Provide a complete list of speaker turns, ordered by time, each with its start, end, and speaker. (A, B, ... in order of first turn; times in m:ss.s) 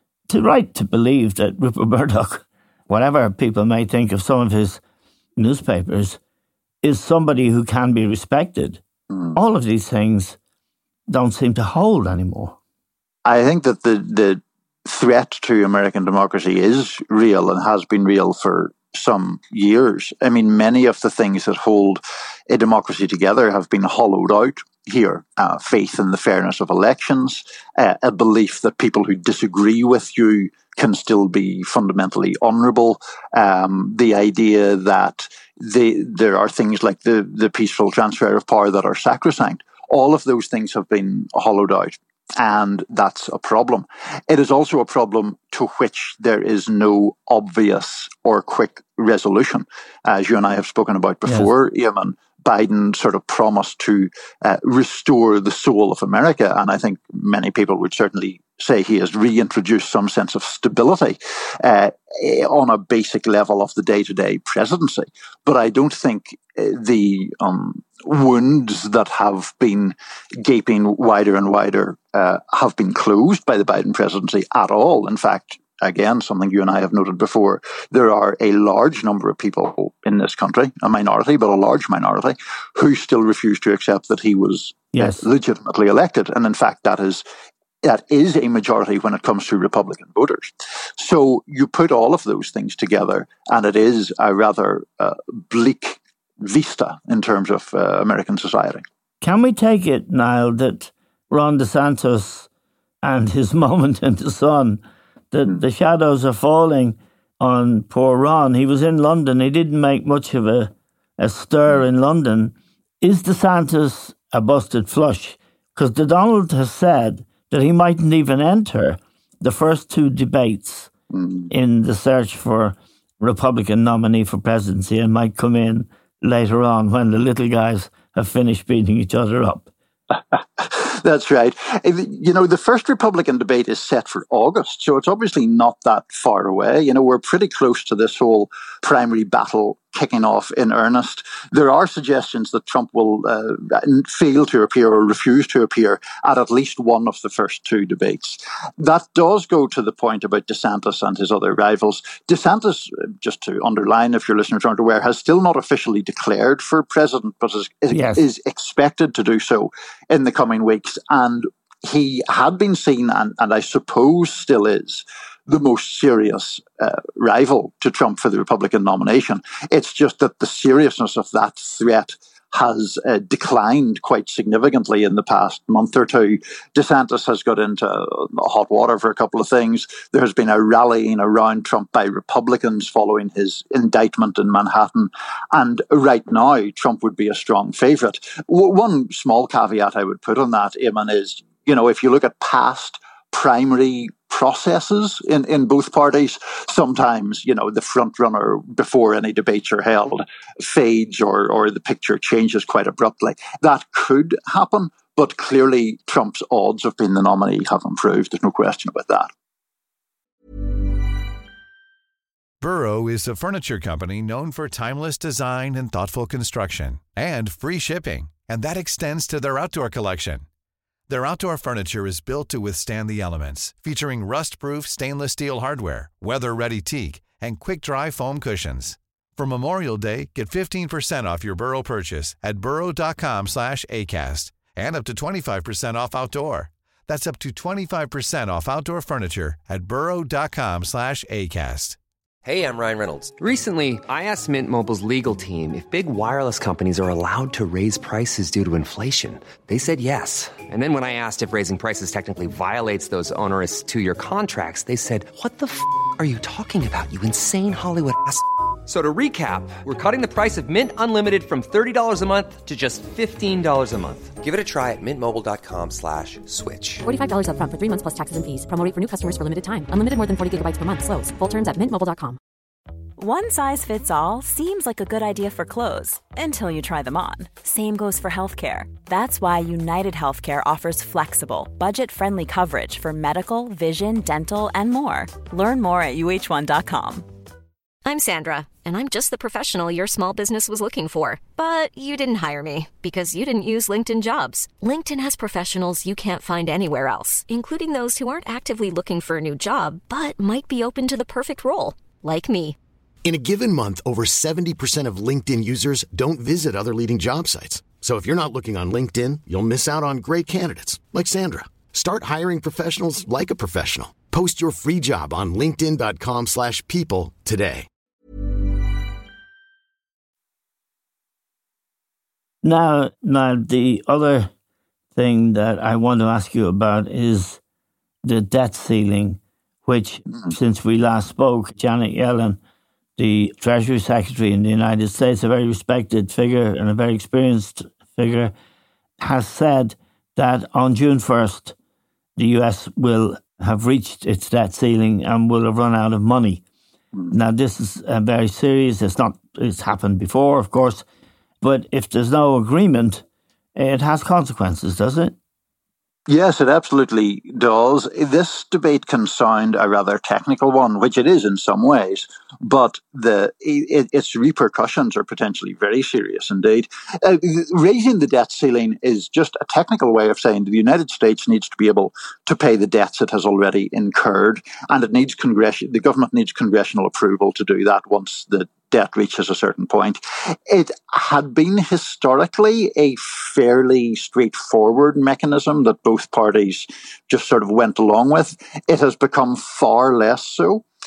0:00.3-0:04.8 A
0:05.4-0:06.2 A
0:06.8-0:08.8 A
0:09.3-0:10.4 A
0:11.1-0:12.6 A
0:13.2-1:27.2 B
1:24.9-1:25.2 A
1:27.8-1:38.8 B
1:39.2-1:42.5 A
1:43.0-2:00.9 A
2:01.1-2:01.5 B
2:01.5-2:09.7 A
2:10.6-3:29.3 B
2:37.9-2:38.2 A
3:32.6-3:40.4 C
3:41.1-4:02.0 C
4:02.4-4:27.1 D
4:27.0-4:32.4 E
4:33.2-4:47.3 F
4:48.0-5:02.8 G
5:03.2-5:17.9 H
5:22.6-5:24.5 A
5:25.1-5:27.6 A
5:28.2-5:32.6 A
5:33.2-5:38.5 A
5:39.2-5:41.7 A
5:42.4-5:46.6 A
5:47.3-5:51.0 A
5:51.6-5:53.2 A
5:53.8-5:55.3 A
5:56.3-6:30.8 B